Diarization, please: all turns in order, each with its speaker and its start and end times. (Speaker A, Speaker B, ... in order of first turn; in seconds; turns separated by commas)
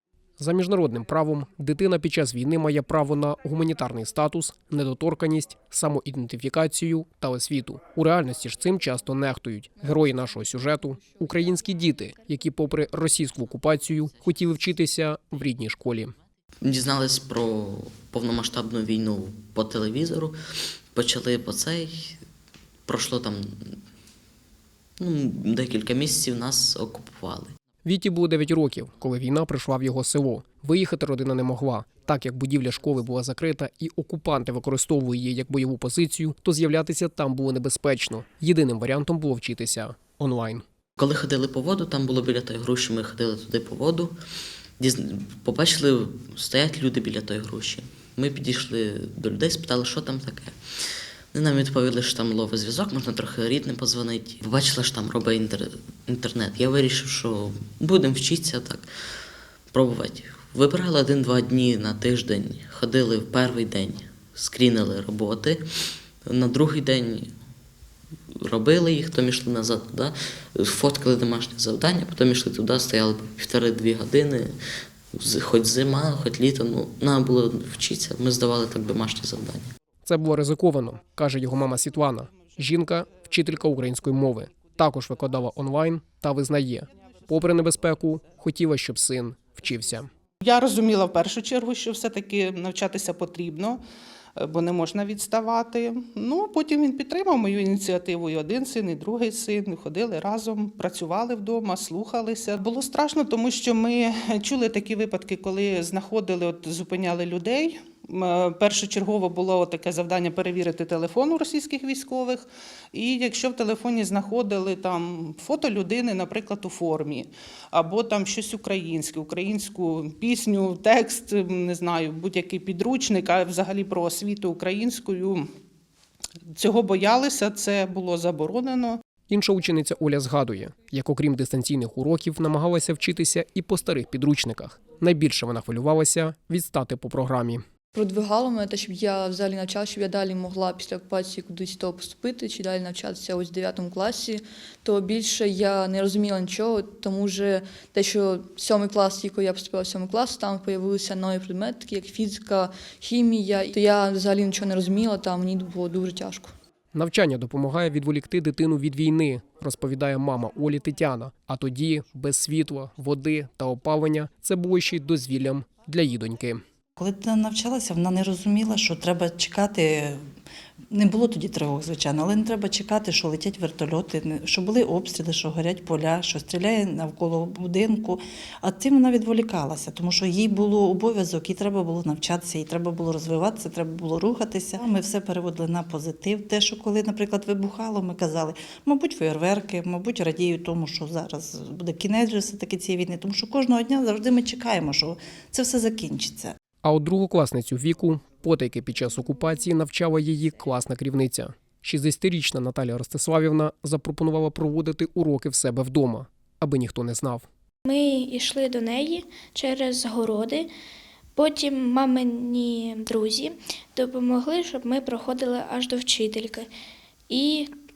Speaker A: 0.4-16.1, Speaker B: 16.6-20.4, Speaker B: 20.9-22.2, Speaker B: 22.9-23.5, Speaker B: 25.0-27.5, Speaker A: 27.9-40.6, Speaker B: 41.0-44.1, Speaker B: 44.8-50.5, Speaker B: 51.3-58.9, Speaker B: 59.7-65.6, Speaker B: 66.3-67.3, Speaker B: 68.5-74.5, Speaker B: 75.2-79.7, Speaker A: 80.1-90.1, Speaker C: 90.4-93.8, Speaker C: 94.4-125.5, Speaker C: 126.5-129.0, Speaker A: 129.3-137.6, Speaker D: 137.9-156.5, Speaker A: 156.9-166.6, Speaker E: 167.0-170.2, Speaker E: 170.9-196.5, Speaker A: 196.8-207.5, Speaker F: 207.9-210.7, Speaker F: 211.4-216.7, Speaker F: 217.3-217.7